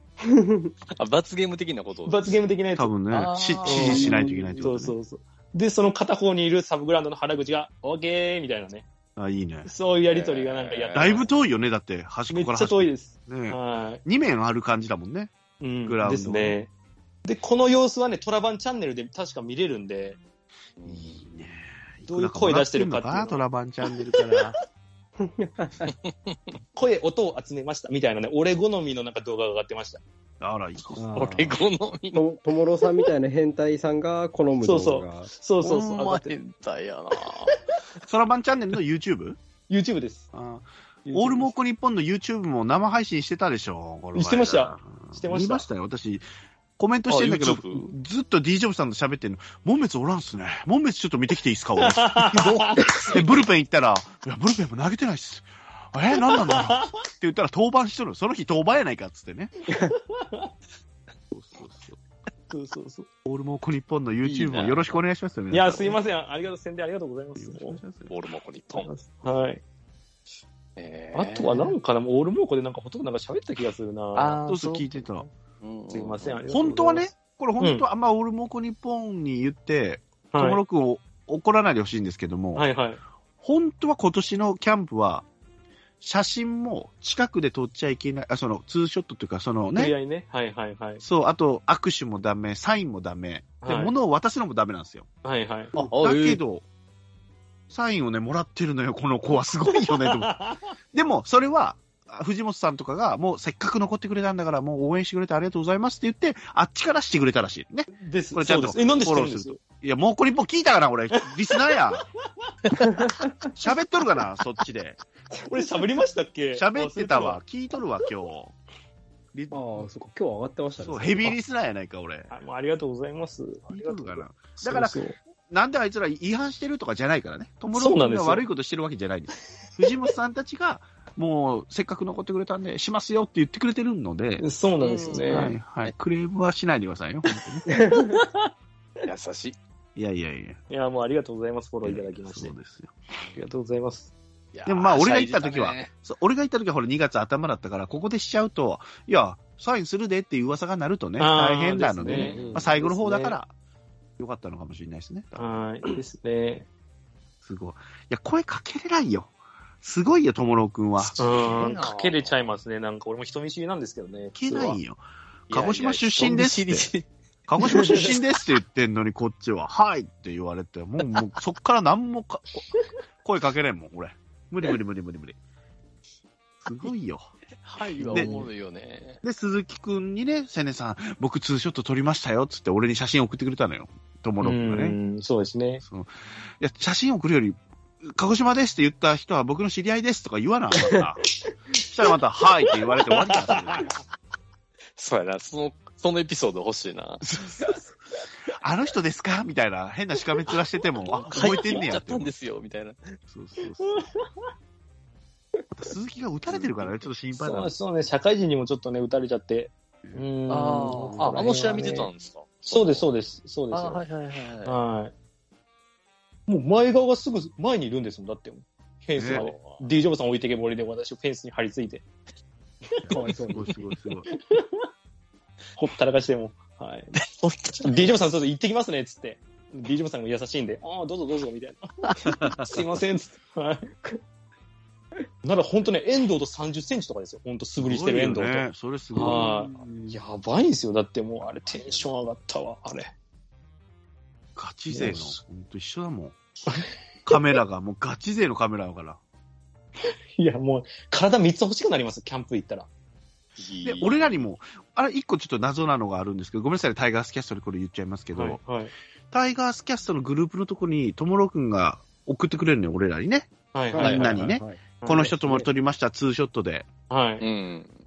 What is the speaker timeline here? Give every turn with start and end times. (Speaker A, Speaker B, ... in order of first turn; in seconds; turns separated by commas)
Speaker A: 0.3-0.7, Speaker B: 1.0-2.4, Speaker C: 2.1-2.9, Speaker D: 2.8-5.0, Speaker B: 3.1-4.2, Speaker C: 3.7-8.8, Speaker A: 3.9-4.6, Speaker D: 9.2-9.7, Speaker C: 9.7-11.3, Speaker B: 10.1-11.2, Speaker D: 10.9-15.3, Speaker C: 12.3-14.0, Speaker C: 15.6-16.7, Speaker D: 15.8-16.6, Speaker C: 17.2-20.2, Speaker B: 20.8-21.2, Speaker D: 20.9-24.6, Speaker C: 22.1-23.4, Speaker A: 25.2-25.9, Speaker B: 25.9-26.4, Speaker C: 26.8-30.0, Speaker D: 30.4-31.3, Speaker A: 31.0-31.6, Speaker B: 31.1-32.2, Speaker A: 32.1-35.3, Speaker C: 34.6-36.4, Speaker B: 35.6-37.6, Speaker C: 37.2-37.6, Speaker D: 38.0-39.4, Speaker C: 39.7-40.3, Speaker D: 40.3-46.2, Speaker C: 41.0-41.5, Speaker C: 44.1-45.7, Speaker D: 46.8-59.5, Speaker B: 47.1-47.9, Speaker C: 51.8-53.1, Speaker B: 52.7-53.2, Speaker C: 56.2-56.9, Speaker C: 59.8-60.5, Speaker D: 61.3-62.0, Speaker C: 62.5-63.1, Speaker D: 63.2-66.0, Speaker B: 64.2-65.0, Speaker C: 65.5-67.8, Speaker D: 67.4-68.1, Speaker B: 68.1-68.9, Speaker C: 68.8-69.6, Speaker B: 70.8-71.8, Speaker C: 71.1-74.4, Speaker B: 74.2-76.4, Speaker D: 74.5-75.3, Speaker C: 75.9-77.1, Speaker D: 76.5-82.7, Speaker C: 77.6-77.8, Speaker C: 80.3-80.6, Speaker C: 82.5-83.0, Speaker D: 83.4-85.3, Speaker D: 86.0-90.0, Speaker C: 89.8-91.0, Speaker D: 91.0-95.1, Speaker C: 93.6-93.9, Speaker C: 95.2-95.7, Speaker B: 95.8-96.4, Speaker D: 95.8-96.6, Speaker D: 97.7-100.3, Speaker C: 99.7-100.6, Speaker D: 100.9-112.0, Speaker C: 108.0-109.6, Speaker C: 111.5-111.8, Speaker C: 112.5-113.2, Speaker D: 113.5-115.0, Speaker C: 115.5-117.4, Speaker D: 116.5-118.5, Speaker D: 119.3-119.7, Speaker A: 119.5-121.4, Speaker D: 120.8-122.3, Speaker C: 122.3-125.2, Speaker D: 123.7-134.5, Speaker C: 127.7-128.5, Speaker C: 134.4-135.6, Speaker B: 134.8-135.9, Speaker D: 135.3-137.7, Speaker A: 137.7-138.2, Speaker C: 137.9-138.5, Speaker B: 139.1-139.6, Speaker D: 140.0-140.6, Speaker C: 140.7-142.6, Speaker D: 141.8-142.9, Speaker C: 143.3-144.1, Speaker B: 144.5-145.9, Speaker D: 144.7-153.5, Speaker C: 151.2-153.4, Speaker A: 152.1-152.7, Speaker B: 152.1-152.5, Speaker D: 154.2-155.6, Speaker C: 155.4-156.7, Speaker D: 157.4-159.3, Speaker D: 159.8-161.7, Speaker B: 161.0-162.5, Speaker C: 161.2-164.8, Speaker D: 164.3-166.9, Speaker B: 165.5-167.1, Speaker D: 167.5-172.7, Speaker C: 167.6-168.1, Speaker B: 167.8-168.1, Speaker D: 173.2-175.4, Speaker D: 176.6-177.2, Speaker B: 177.7-179.2, Speaker D: 178.0-178.3, Speaker C: 178.0-178.5, Speaker D: 179.2-185.0, Speaker C: 184.4-185.8, Speaker D: 185.8-191.2, Speaker D: 191.8-193.9, Speaker C: 193.1-193.9, Speaker B: 195.0-197.2, Speaker D: 197.2-197.8, Speaker D: 198.6-202.3, Speaker B: 201.2-203.2, Speaker C: 201.3-201.5, Speaker D: 203.3-204.1, Speaker C: 203.8-204.2, Speaker D: 205.7-207.7, Speaker C: 207.3-212.1, Speaker B: 210.5-213.1, Speaker A: 210.9-211.8, Speaker C: 212.7-214.0, Speaker B: 213.7-214.8, Speaker C: 214.7-215.1, Speaker C: 216.5-222.1, Speaker D: 219.2-219.5, Speaker B: 219.3-219.8, Speaker C: 223.0-223.3, Speaker A: 223.1-223.7, Speaker D: 223.5-224.3, Speaker C: 224.3-224.9, Speaker C: 225.8-227.2, Speaker B: 227.2-228.1, Speaker C: 227.8-233.9, Speaker D: 232.2-232.8, Speaker C: 235.4-243.1, Speaker D: 237.8-240.2, Speaker D: 241.7-242.0, Speaker D: 244.6-246.3, Speaker C: 244.9-245.4, Speaker D: 247.3-249.2, Speaker C: 250.4-252.9, Speaker B: 253.6-254.5, Speaker D: 253.8-258.6, Speaker C: 258.3-258.9, Speaker D: 259.3-266.9, Speaker C: 263.7-264.5, Speaker A: 263.9-264.8, Speaker C: 265.0-265.4, Speaker C: 267.1-267.4, Speaker B: 267.4-267.9